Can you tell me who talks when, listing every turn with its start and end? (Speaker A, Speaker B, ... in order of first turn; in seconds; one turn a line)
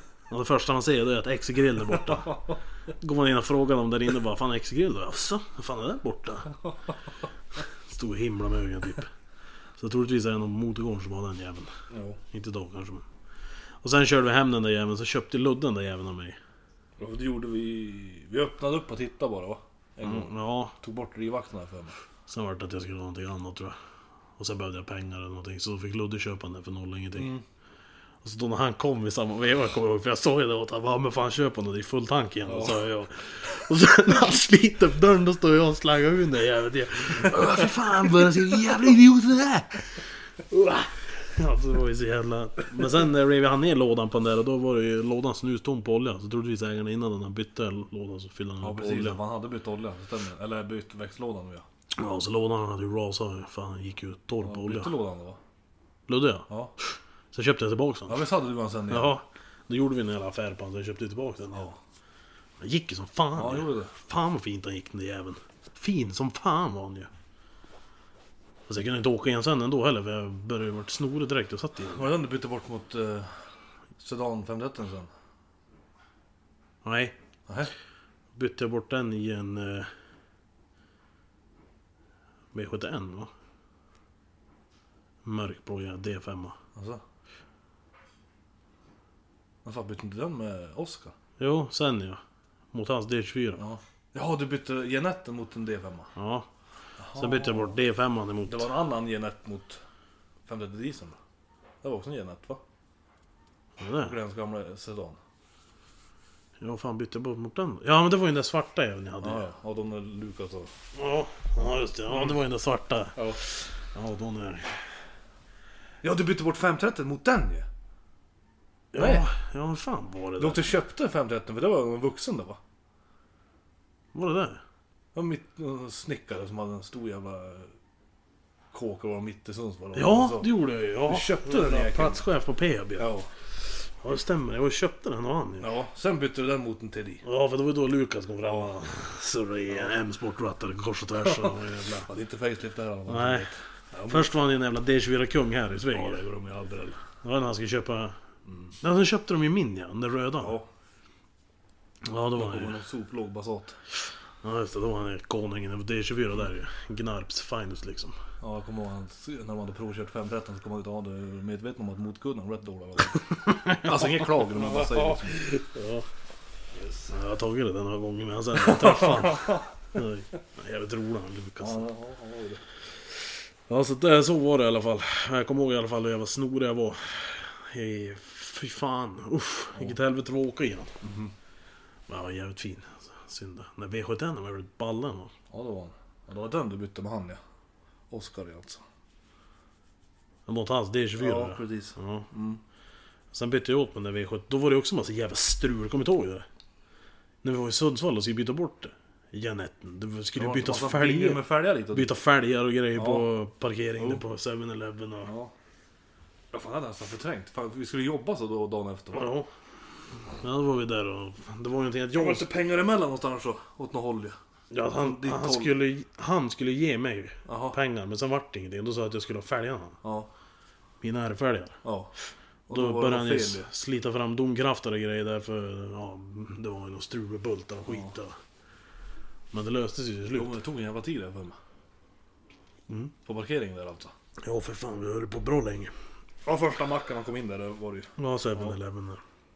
Speaker A: 0.3-2.4
Speaker A: 3.0-6.5
Speaker A: 7.9-9.1
Speaker A: 9.8-11.7
Speaker B: 11.9-12.2
Speaker A: 12.3-13.1
Speaker A: 13.8-16.4
Speaker B: 17.0-21.9
Speaker A: 20.0-20.7
Speaker A: 22.3-23.8
Speaker A: 24.4-27.4
Speaker B: 27.2-27.4
Speaker A: 28.2-39.9
Speaker B: 32.5-32.8
Speaker A: 40.5-49.2
Speaker B: 48.6-51.6
Speaker A: 52.0-54.9
Speaker B: 54.4-55.4
Speaker A: 56.1-58.2
Speaker B: 56.5-56.7
Speaker B: 58.1-59.1
Speaker A: 58.9-61.7
Speaker A: 62.6-67.1
Speaker B: 63.4-63.9
Speaker A: 68.7-72.1
Speaker B: 71.9-73.3
Speaker B: 74.0-75.1
Speaker A: 76.8-77.2
Speaker A: 78.3-79.9
Speaker A: 82.5-83.3
Speaker A: 85.2-86.6
Speaker B: 86.8-87.0
Speaker B: 89.6-91.1
Speaker A: 91.4-92.2
Speaker A: 92.7-93.6
Speaker B: 93.6-96.1
Speaker A: 96.2-96.5
Speaker B: 97.0-97.8
Speaker A: 97.2-98.7
Speaker B: 98.5-99.8
Speaker B: 100.5-101.2
Speaker B: 101.8-102.6
Speaker A: 103.8-104.2
Speaker B: 104.0-105.2
Speaker A: 106.6-109.5
Speaker B: 109.2-110.7
Speaker A: 111.0-114.8
Speaker B: 116.0-117.7
Speaker A: 118.9-120.7
Speaker B: 118.9-119.3
Speaker B: 120.4-122.6
Speaker A: 124.1-124.6
Speaker B: 125.2-127.7
Speaker B: 128.7-130.5
Speaker A: 129.9-133.1
Speaker B: 131.1-132.2
Speaker B: 133.0-133.3
Speaker A: 134.0-135.7
Speaker B: 135.6-137.2
Speaker A: 137.2-142.1
Speaker B: 141.3-144.3
Speaker A: 143.1-143.5
Speaker A: 144.1-146.2
Speaker B: 145.9-147.0
Speaker A: 147.2-148.2
Speaker B: 148.5-148.7
Speaker A: 148.8-150.6
Speaker B: 150.4-150.7
Speaker A: 152.1-152.8
Speaker B: 152.4-153.8
Speaker A: 154.4-158.2
Speaker B: 158.4-165.4
Speaker A: 163.4-166.1
Speaker B: 166.7-167.1
Speaker A: 167.1-171.8
Speaker B: 168.6-169.6
Speaker B: 171.6-172.6
Speaker A: 173.7-180.9
Speaker B: 181.0-181.3
Speaker A: 182.1-185.3
Speaker B: 185.5-187.4
Speaker B: 188.1-188.8
Speaker A: 190.5-192.3
Speaker B: 191.2-192.6
Speaker A: 193.3-196.5
Speaker A: 197.4-205.3
Speaker B: 200.4-202.1
Speaker B: 202.9-203.3
Speaker B: 205.2-205.5
Speaker B: 206.5-209.3
Speaker A: 209.1-209.5
Speaker A: 210.4-212.5
Speaker B: 212.1-214.4
Speaker A: 214.7-220.0
Speaker B: 215.0-215.7
Speaker B: 217.5-217.8
Speaker B: 220.0-220.3
Speaker A: 221.0-221.8
Speaker B: 221.8-222.1
Speaker B: 222.7-223.7
Speaker A: 222.7-228.3
Speaker A: 229.5-230.6
Speaker B: 230.3-231.6
Speaker B: 233.2-234.1
Speaker A: 234.4-235.9
Speaker B: 236.4-238.8
Speaker A: 238.2-239.2